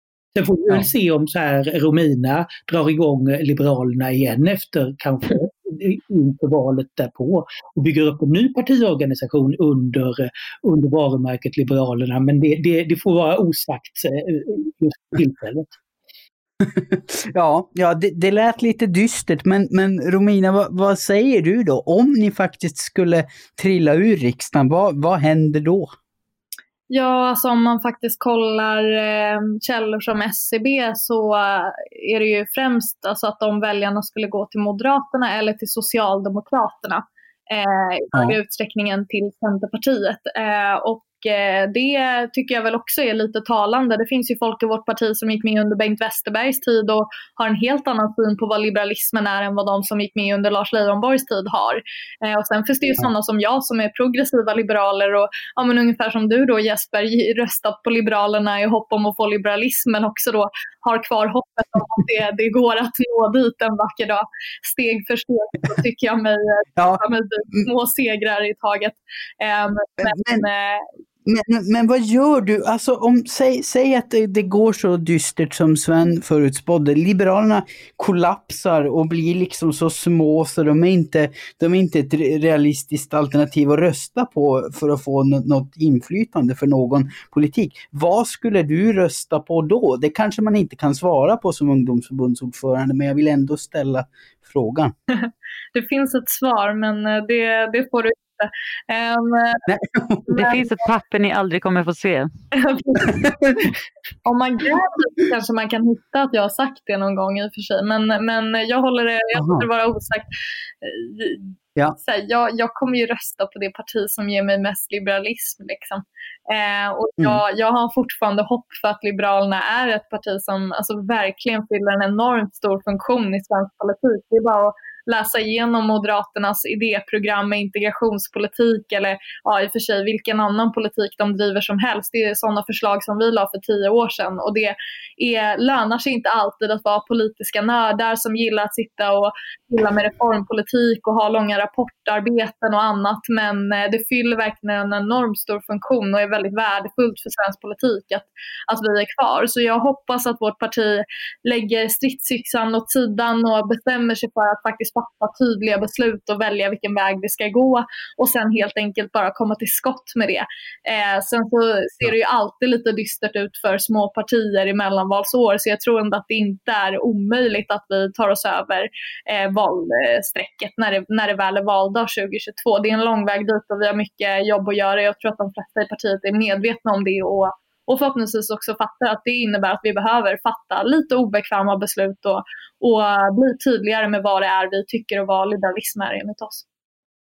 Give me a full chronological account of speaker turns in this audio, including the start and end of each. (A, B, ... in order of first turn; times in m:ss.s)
0:00.3-0:15.7 A
0:16.6-0:25.9 B
0:26.9-1:10.8 C
1:06.8-1:07.6 B
1:10.0-1:10.4 B
1:11.2-1:34.9 B
1:35.1-1:39.6 C
1:39.7-1:40.6 B
1:40.3-1:40.6 C
1:40.3-1:42.3 D
1:42.5-1:43.3 C
1:43.2-1:43.5 B
1:44.2-1:50.3 C
1:49.3-1:49.6 B
1:50.8-3:06.6 C